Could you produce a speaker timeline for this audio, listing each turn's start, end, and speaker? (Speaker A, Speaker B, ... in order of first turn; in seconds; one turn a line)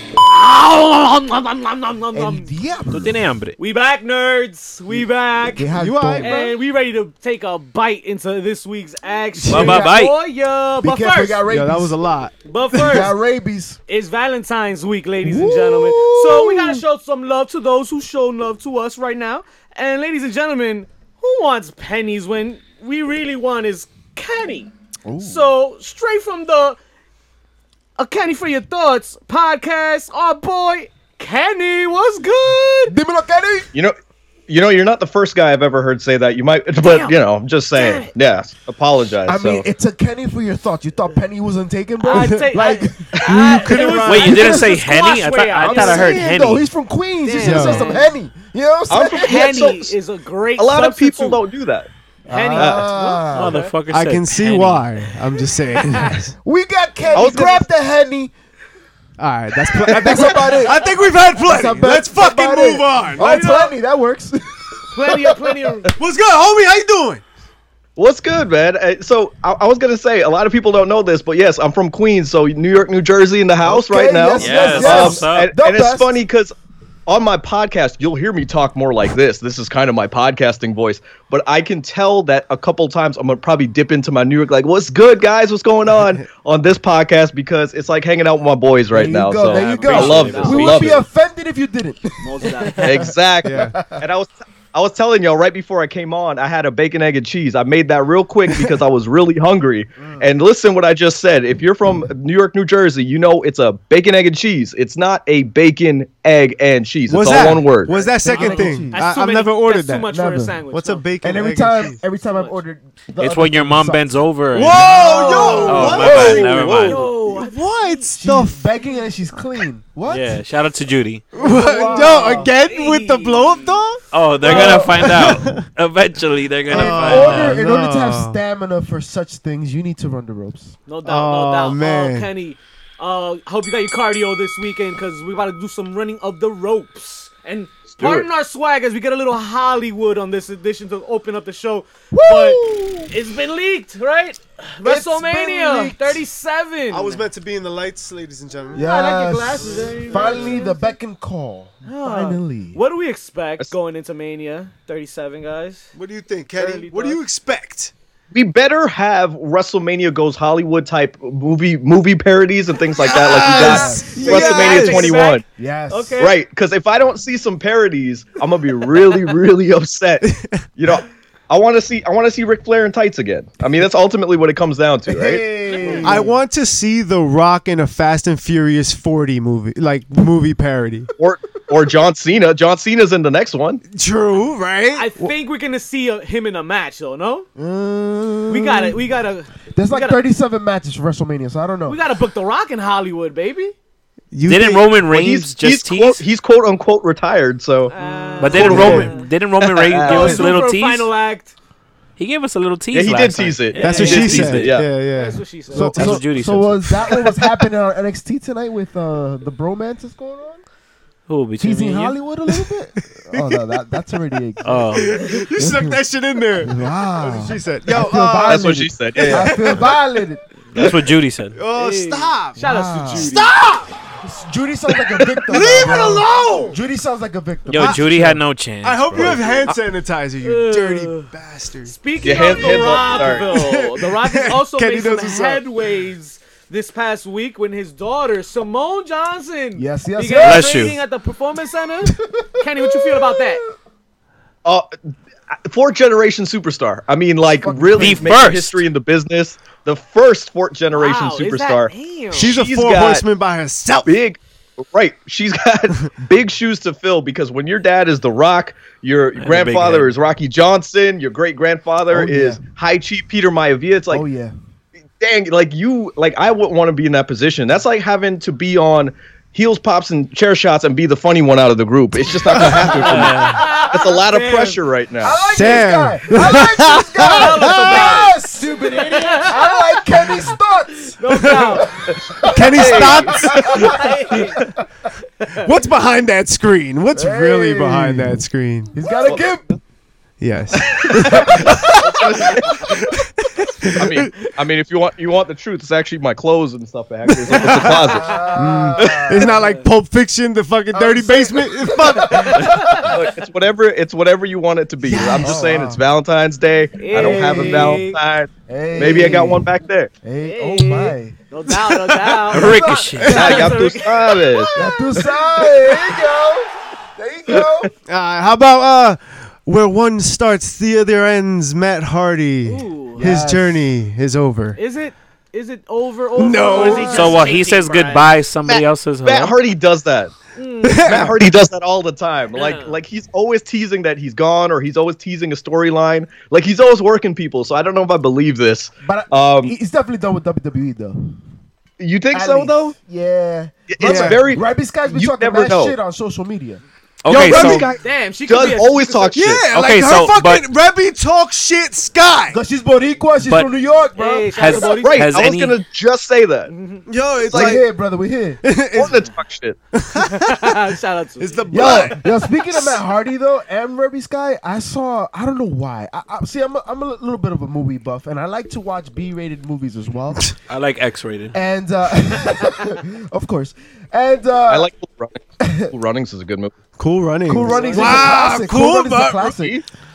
Speaker A: 0.2-2.5
Speaker B: 2.1-3.2
Speaker C: 2.9-3.5
Speaker A: 3.6-11.4
Speaker B: 5.5-6.6
Speaker D: 5.7-6.3
Speaker D: 9.4-9.8
Speaker C: 9.5-10.1
Speaker B: 9.5-10.1
Speaker B: 10.8-12.0
Speaker D: 11.5-13.1
Speaker A: 12.4-13.1
Speaker B: 12.9-13.8
Speaker A: 13.9-26.8
Speaker B: 15.2-16.8
Speaker B: 25.0-25.5
Speaker A: 28.0-33.0
Speaker B: 32.9-33.7
Speaker E: 34.5-39.6
Speaker A: 36.8-37.1
Speaker A: 37.7-38.1
Speaker B: 39.3-44.8
Speaker A: 42.0-46.2
Speaker D: 42.1-42.4
Speaker D: 43.2-44.5
Speaker C: 44.0-46.7
Speaker B: 45.6-49.6
Speaker A: 47.2-48.1
Speaker D: 47.4-47.9
Speaker E: 48.9-49.9
Speaker A: 49.1-51.4
Speaker E: 50.6-51.9
Speaker A: 52.3-53.7
Speaker B: 52.3-53.6
Speaker E: 52.5-52.9
Speaker C: 53.3-54.9
Speaker D: 53.9-56.3
Speaker A: 55.8-56.2
Speaker B: 56.4-58.3
Speaker E: 57.1-57.6
Speaker D: 59.2-63.5
Speaker B: 59.8-65.4
Speaker A: 60.1-60.9
Speaker A: 63.2-63.7
Speaker A: 64.9-65.9
Speaker D: 66.0-67.2
Speaker E: 68.0-76.5
Speaker B: 73.6-76.1
Speaker C: 74.4-75.5
Speaker E: 77.1-91.0
Speaker D: 85.9-86.2
Speaker B: 88.9-94.0
Speaker A: 89.5-90.9
Speaker A: 92.2-93.1
Speaker E: 92.8-107.9
Speaker D: 93.4-93.8
Speaker D: 107.1-110.1
Speaker A: 107.9-111.0
Speaker B: 108.2-109.0
Speaker B: 110.1-110.6
Speaker D: 110.7-112.0
Speaker B: 111.2-114.1
Speaker A: 112.1-112.6
Speaker C: 113.2-115.0
Speaker D: 114.5-118.6
Speaker A: 114.7-118.1
Speaker B: 115.0-116.5
Speaker C: 115.7-117.1
Speaker B: 118.2-120.4
Speaker C: 120.1-121.3
Speaker D: 121.3-125.7
Speaker B: 121.3-122.5
Speaker A: 121.4-123.8
Speaker C: 124.1-127.6
Speaker A: 124.4-125.0
Speaker B: 124.4-125.4
Speaker D: 126.7-128.4
Speaker B: 126.7-130.8
Speaker A: 130.9-147.2
Speaker D: 131.0-132.3
Speaker E: 138.0-138.3
Speaker B: 142.1-143.1
Speaker B: 144.8-146.2
Speaker D: 146.9-148.9
Speaker A: 148.7-150.9
Speaker B: 148.7-152.8
Speaker D: 150.1-150.6
Speaker A: 151.8-155.9
Speaker D: 155.9-157.9
Speaker A: 156.5-157.2
Speaker E: 158.3-165.4
Speaker D: 163.0-165.1
Speaker B: 163.3-164.4
Speaker A: 164.1-166.3
Speaker B: 165.6-166.2
Speaker E: 166.2-175.4
Speaker D: 170.2-170.6
Speaker B: 175.1-176.3
Speaker A: 175.7-176.3
Speaker D: 176.0-181.1
Speaker E: 181.2-183.8
Speaker D: 183.9-185.3
Speaker A: 184.9-187.5
Speaker B: 187.6-189.0
Speaker A: 188.5-190.2
Speaker B: 189.7-192.0
Speaker A: 191.9-193.7
Speaker D: 194.3-194.9
Speaker C: 194.4-196.2
Speaker E: 195.1-200.4
Speaker A: 197.9-199.3
Speaker C: 198.4-201.1
Speaker D: 198.5-199.1
Speaker A: 200.0-201.5
Speaker C: 202.2-204.8
Speaker E: 202.9-204.9
Speaker A: 203.8-204.3
Speaker D: 203.8-206.2
Speaker A: 205.1-205.9
Speaker B: 205.7-210.6
Speaker C: 205.8-206.9
Speaker C: 211.3-212.2
Speaker B: 211.6-216.0
Speaker D: 213.3-214.0
Speaker C: 214.6-215.2
Speaker D: 214.9-219.4
Speaker B: 216.6-220.4
Speaker E: 218.4-219.8
Speaker C: 220.7-221.6
Speaker D: 221.5-222.6
Speaker A: 221.7-223.5
Speaker B: 222.6-223.5
Speaker D: 223.1-223.9
Speaker B: 224.2-228.4
Speaker D: 225.2-226.8
Speaker C: 227.7-229.7
Speaker D: 228.8-231.9
Speaker A: 229.3-229.8
Speaker A: 230.4-231.3
Speaker A: 231.8-243.6
Speaker E: 232.2-233.5
Speaker D: 233.1-235.6
Speaker B: 239.8-240.7
Speaker C: 240.4-241.0
Speaker B: 242.2-243.7
Speaker E: 245.5-253.2
Speaker B: 247.6-248.3
Speaker C: 248.0-248.8
Speaker A: 250.9-252.6
Speaker D: 252.3-254.2
Speaker E: 254.1-264.2
Speaker C: 259.4-260.1
Speaker B: 262.1-262.6
Speaker B: 264.1-264.5
Speaker E: 265.2-275.4
Speaker D: 272.4-273.3
Speaker B: 272.5-273.3
Speaker C: 273.0-273.6
Speaker A: 273.2-274.8
Speaker B: 275.2-284.1
Speaker D: 275.5-278.2
Speaker A: 277.2-279.8
Speaker A: 281.2-281.9
Speaker D: 281.3-281.7
Speaker E: 282.5-283.8
Speaker D: 282.5-283.9
Speaker A: 283.6-284.6
Speaker D: 285.6-289.0
Speaker B: 287.1-288.4
Speaker B: 288.9-289.8
Speaker D: 290.4-294.3
Speaker E: 290.8-293.0
Speaker B: 291.4-291.9
Speaker E: 293.9-299.5
Speaker D: 297.4-302.8
Speaker B: 297.6-299.5
Speaker A: 299.5-299.9
Speaker B: 300.9-303.1
Speaker A: 302.5-303.1
Speaker E: 302.7-310.1
Speaker D: 305.0-305.7
Speaker B: 305.4-306.0
Speaker A: 307.0-308.2
Speaker B: 307.1-308.0
Speaker B: 308.7-309.7
Speaker B: 310.2-311.3
Speaker A: 310.4-315.0
Speaker D: 311.7-312.4
Speaker C: 312.5-313.6
Speaker B: 312.5-313.8
Speaker D: 313.2-313.6
Speaker E: 313.3-314.8
Speaker B: 314.7-317.9
Speaker E: 317.5-317.9
Speaker D: 318.1-324.8
Speaker A: 322.6-323.3
Speaker B: 323.2-323.9
Speaker A: 324.8-328.3
Speaker D: 326.4-327.4
Speaker B: 326.7-327.2
Speaker C: 326.9-329.5
Speaker E: 328.7-330.3
Speaker A: 330.5-331.0
Speaker D: 330.8-331.4
Speaker E: 330.9-339.7
Speaker A: 332.5-332.9
Speaker B: 339.0-341.4
Speaker E: 342.0-342.9
Speaker B: 342.3-346.8
Speaker E: 343.9-345.9
Speaker D: 344.0-344.4
Speaker C: 347.2-347.9
Speaker E: 347.3-349.6
Speaker A: 347.5-349.3
Speaker D: 349.3-352.6
Speaker C: 349.7-350.6
Speaker B: 352.5-355.0
Speaker C: 353.4-353.7
Speaker A: 354.1-355.3
Speaker C: 354.6-355.8
Speaker E: 355.0-356.7
Speaker A: 356.7-357.0
Speaker D: 357.1-357.8
Speaker E: 357.4-357.8
Speaker B: 357.5-358.6
Speaker D: 358.6-359.3
Speaker E: 358.9-359.8
Speaker D: 359.9-360.8
Speaker A: 360.1-362.1
Speaker D: 361.4-363.0
Speaker B: 361.7-370.6
Speaker C: 370.7-371.6
Speaker B: 371.5-374.9
Speaker E: 374.7-376.7
Speaker B: 375.6-375.9
Speaker D: 377.0-379.5
Speaker B: 377.4-379.8
Speaker A: 377.6-378.3
Speaker E: 379.5-379.8